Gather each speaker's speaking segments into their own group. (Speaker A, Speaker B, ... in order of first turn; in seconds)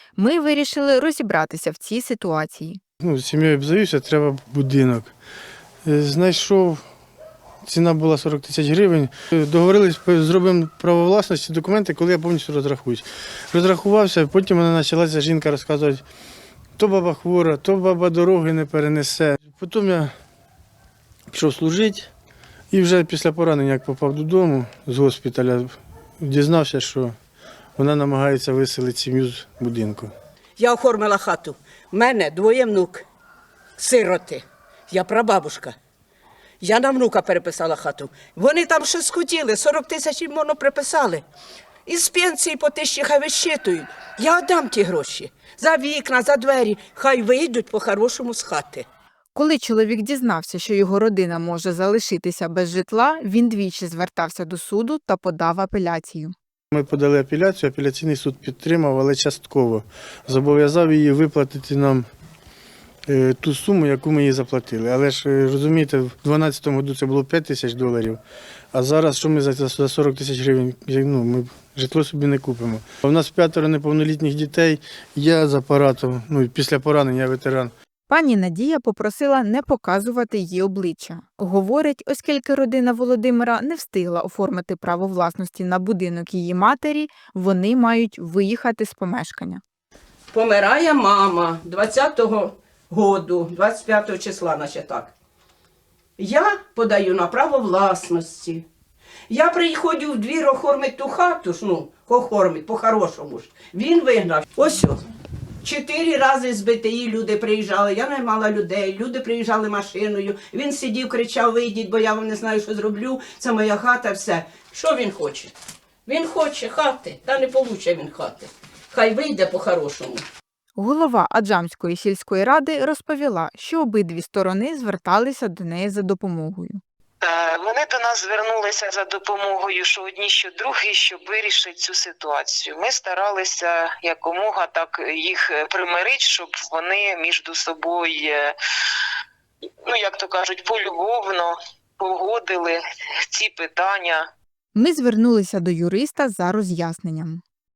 Speaker A: 0.1-2.8, 49.3-56.3, 78.1-89.6, 120.8-126.8, 144.7-147.4
Speaker B: 3.0-5.1, 5.8-6.8, 7.6-16.0, 16.8-20.1, 21.3-22.1, 22.7-27.1, 27.8-30.1, 56.7-62.0, 63.1-68.2, 68.7-77.7
Speaker C: 30.6-33.0, 33.8-35.8, 36.6-41.2, 41.9-48.9, 90.3-95.1, 96.2-98.6, 99.3-105.0, 105.6-115.5, 116.0-120.2
Speaker D: 127.2-138.5, 139.8-144.3